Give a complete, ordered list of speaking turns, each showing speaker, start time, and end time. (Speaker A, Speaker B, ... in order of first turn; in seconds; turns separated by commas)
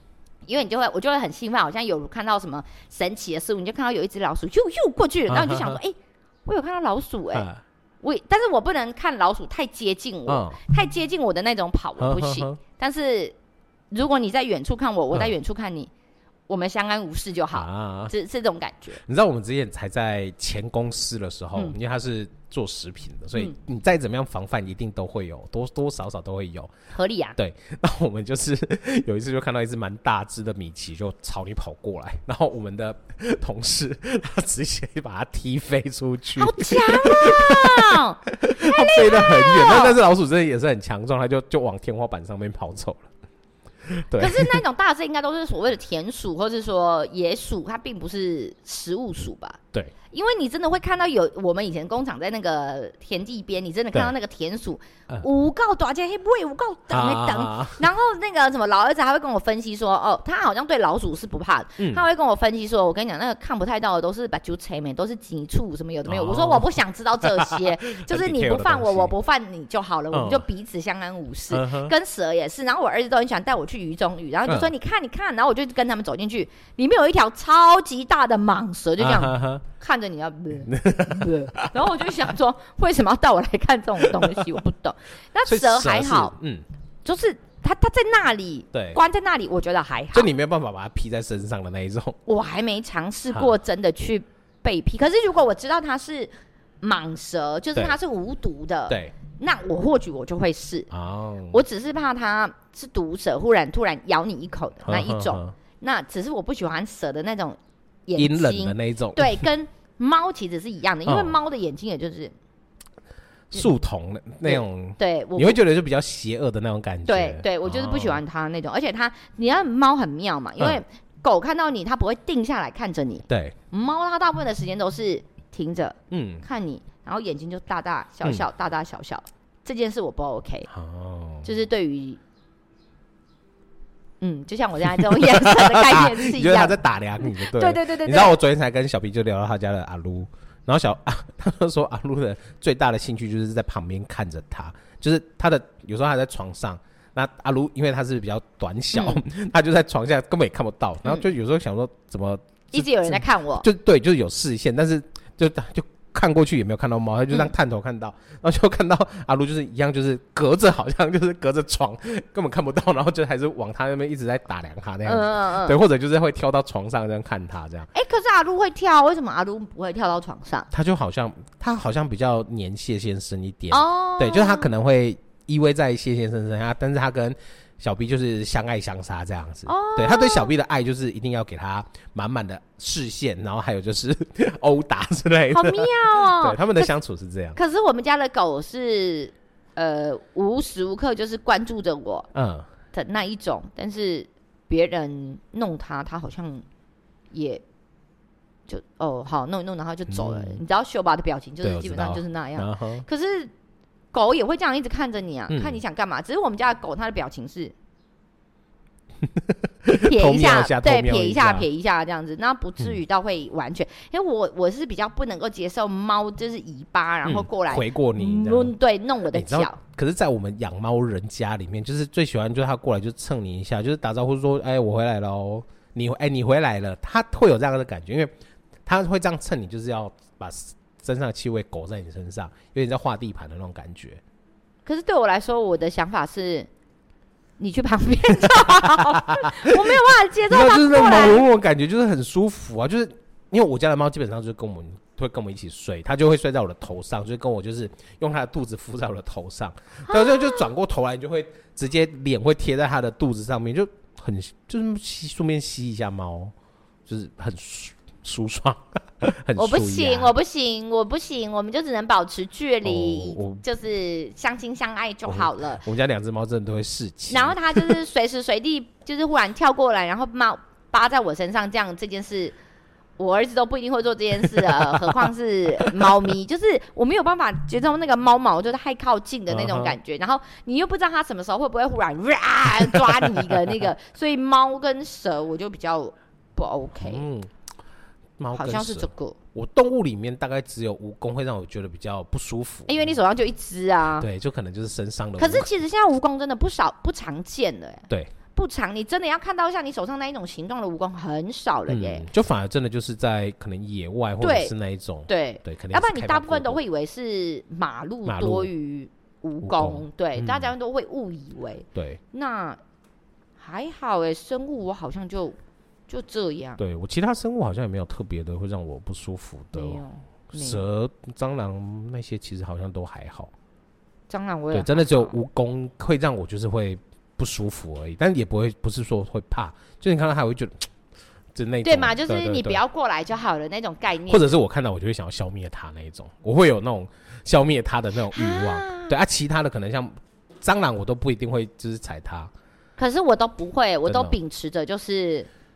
Speaker A: 0.5-5.9, Speaker B: 5.3-5.8, Speaker A: 6.5-7.5, Speaker B: 7.3-7.6, Speaker A: 8.0-13.3, Speaker B: 10.3-10.6, Speaker B: 12.0-12.6, Speaker A: 13.9-15.9, Speaker A: 16.5-19.0, Speaker B: 17.5-18.1, Speaker B: 19.0-26.7, Speaker A: 26.9-27.4, Speaker B: 27.4-43.1, Speaker A: 36.4-40.0, Speaker B: 43.9-44.6, Speaker A: 44.1-49.6, Speaker A: 50.1-86.3, Speaker B: 56.9-57.8, Speaker B: 66.0-69.1, Speaker B: 70.1-70.5, Speaker B: 71.5-71.9, Speaker B: 74.5-74.7, Speaker B: 79.0-79.6, Speaker B: 80.7-81.9, Speaker B: 84.1-84.4, Speaker B: 85.5-86.6, Speaker A: 87.0-90.3, Speaker B: 88.7-89.0, Speaker B: 90.1-92.2, Speaker A: 92.2-96.3, Speaker A: 96.8-100.9, Speaker B: 100.9-101.6, Speaker A: 101.5-112.3, Speaker B: 104.8-105.5, Speaker B: 108.2-109.5, Speaker B: 111.0-111.4, Speaker B: 113.5-118.2, Speaker A: 114.4-115.6, Speaker A: 117.0-130.7, Speaker B: 123.3-123.5, Speaker B: 126.1-126.4, Speaker B: 130.7-131.5, Speaker A: 131.4-132.2, Speaker A: 134.2-138.4, Speaker B: 134.9-167.9, Speaker A: 148.9-149.2, Speaker A: 152.7-153.7, Speaker A: 165.0-165.8, Speaker A: 167.9-170.7, Speaker B: 170.7-187.6, Speaker A: 173.7-174.7, Speaker A: 179.7-180.5, Speaker A: 185.5-186.9, Speaker A: 187.5-192.3, Speaker B: 192.3-192.7, Speaker A: 192.9-196.6, Speaker A: 197.3-197.6, Speaker A: 198.7-203.5, Speaker B: 200.1-200.6, Speaker B: 201.6-203.1, Speaker A: 204.1-207.7, Speaker B: 205.5-205.8, Speaker B: 209.2-211.7, Speaker A: 209.9-219.8, Speaker B: 217.2-218.7, Speaker B: 219.3-228.3, Speaker B: 228.8-234.2, Speaker A: 234.8-236.7, Speaker A: 237.6-241.4, Speaker B: 238.5-256.5, Speaker A: 250.1-250.7, Speaker B: 257.1-260.3, Speaker A: 259.6-265.8, Speaker B: 262.8-263.6, Speaker B: 265.2-268.0, Speaker A: 267.3-272.6, Speaker A: 273.2-287.2, Speaker B: 274.6-275.0, Speaker B: 279.5-280.0, Speaker B: 282.9-283.8, Speaker B: 287.0-287.5, Speaker B: 288.4-293.2, Speaker A: 288.5-289.4, Speaker A: 292.9-294.3, Speaker B: 294.2-295.7, Speaker A: 295.4-302.2, Speaker B: 301.9-306.8, Speaker A: 304.4-304.7, Speaker A: 305.3-312.8, Speaker B: 308.2-308.7, Speaker B: 309.6-310.7, Speaker B: 311.9-312.2, Speaker A: 313.6-315.6, Speaker A: 316.1-316.8, Speaker B: 316.8-323.5, Speaker A: 319.7-320.8, Speaker A: 324.3-325.4, Speaker B: 324.7-330.9, Speaker B: 331.5-332.8, Speaker A: 331.8-334.5, Speaker B: 334.3-342.5, Speaker A: 338.3-339.1, Speaker A: 343.0-345.5, Speaker B: 344.1-344.4